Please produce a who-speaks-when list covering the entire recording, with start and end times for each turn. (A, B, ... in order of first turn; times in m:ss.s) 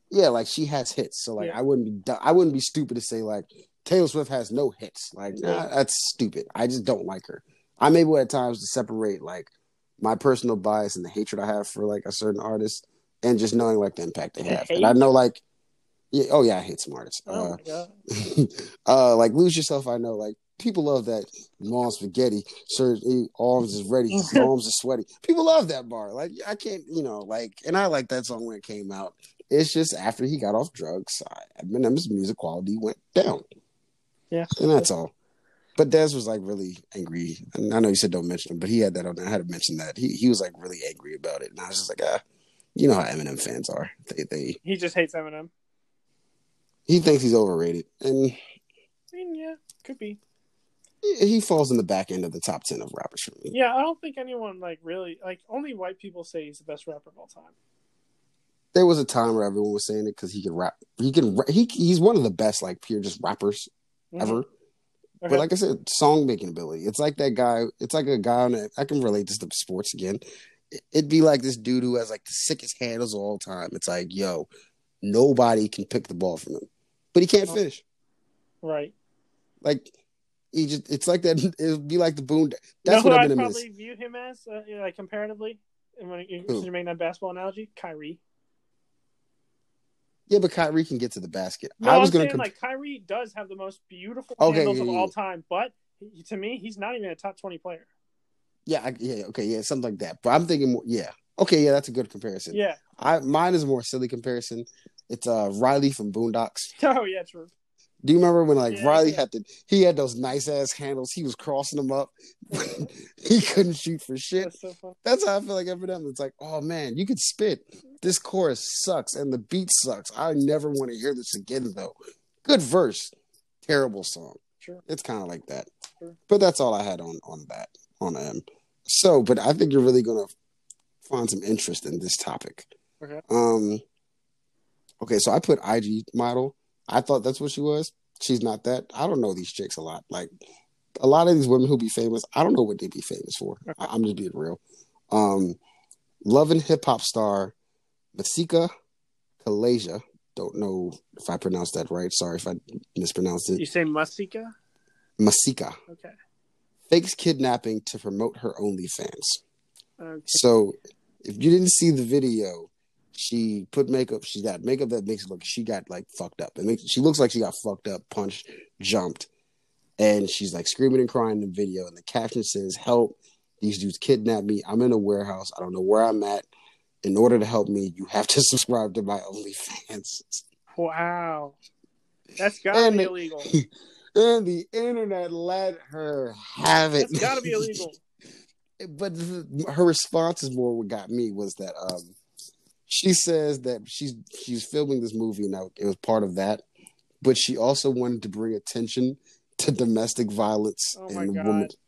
0:00.1-0:15.4 A
0:05.3-0:05.7 B
0:14.5-0:15.0 B
0:16.1-0:17.6 A
0:17.3-0:17.9 B
0:18.2-0:33.4 A
0:24.1-0:24.5 B
0:34.3-0:34.9 B
0:34.6-0:35.1 A
0:35.8-0:42.2 A
0:42.7-0:44.6 A
0:44.6-0:45.5 B
0:46.9-0:48.4 A
0:49.1-0:50.2 B
0:51.0-0:53.6 A
0:53.5-0:57.5 B
0:58.7-1:04.5 A
1:04.1-1:04.4 B
1:05.3-1:14.5 A
1:15.0-1:17.8 A
1:18.6-1:18.9 B
1:19.6-1:19.9 A
1:20.5-1:23.6 A
1:22.8-1:28.2 B
1:30.3-1:32.5 A
1:31.8-1:37.9 B
1:34.4-1:35.1 A
1:38.6-1:46.7 A
1:42.5-1:42.8 B
1:46.8-1:47.5 B
1:48.0-1:54.5 A
1:48.7-1:49.2 B
1:52.5-1:52.9 B
1:54.4-1:55.0 B
1:55.0-2:03.1 A
2:03.6-2:05.7 A
2:06.3-2:10.3 A
2:11.0-2:12.7 A
2:13.3-2:13.8 A
2:15.0-2:20.3 A
2:21.0-2:25.6 A
2:26.2-2:27.5 A
2:28.1-2:28.7 A
2:29.4-2:33.6 A
2:33.6-2:34.5 B
2:35.2-2:35.8 A
2:35.9-2:36.1 B
2:36.9-2:39.4 A
2:40.0-2:40.4 B
2:40.3-2:49.3 A
2:50.0-2:56.5 A
2:57.0-3:00.4 A
3:00.8-3:01.6 B
3:02.4-3:03.5 B
3:02.7-3:07.8 A
3:07.0-3:08.0 B
3:08.8-3:12.1 A
3:12.9-3:16.6 A
3:17.2-3:21.7 A
3:20.9-3:21.7 B